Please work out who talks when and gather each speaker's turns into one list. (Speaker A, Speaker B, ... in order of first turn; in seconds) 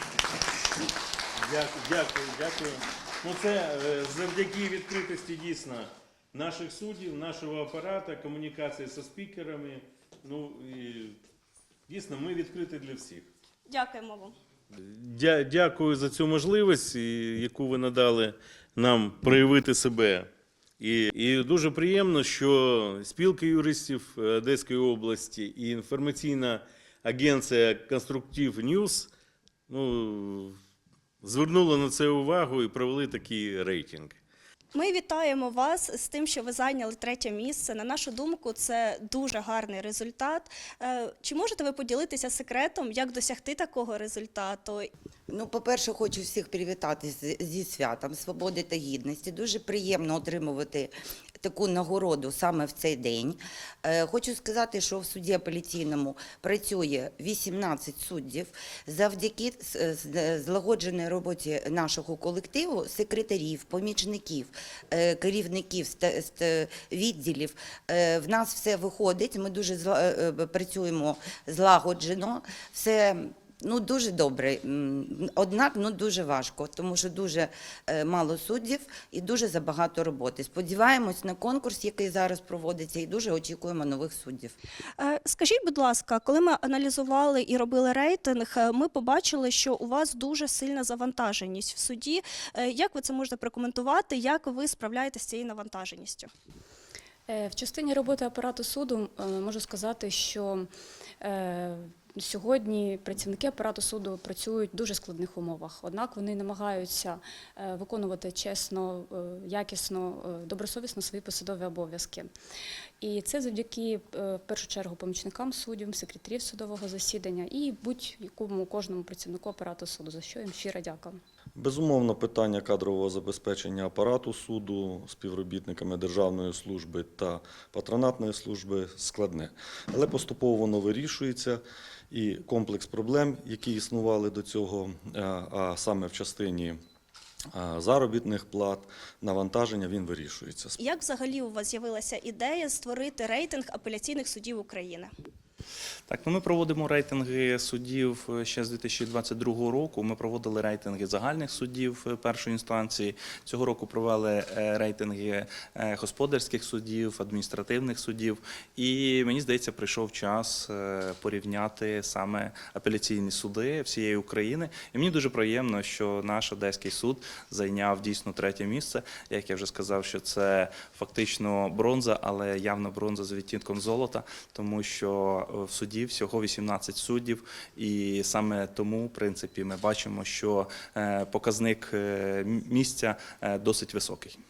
Speaker A: 1.4-11.2, 11.9-13.3, 14.7-20.3, 20.8-29.1, 29.7-30.6, 31.2-34.2
Speaker B: 13.7-14.4, 34.7-44.9, 85.0-96.3, 140.8-145.1
Speaker C: 45.3-84.5
Speaker D: 97.3-100.7, 101.2-112.3, 113.0-121.2
Speaker E: 121.6-136.8, 137.5-140.8
Speaker F: 146.1-184.4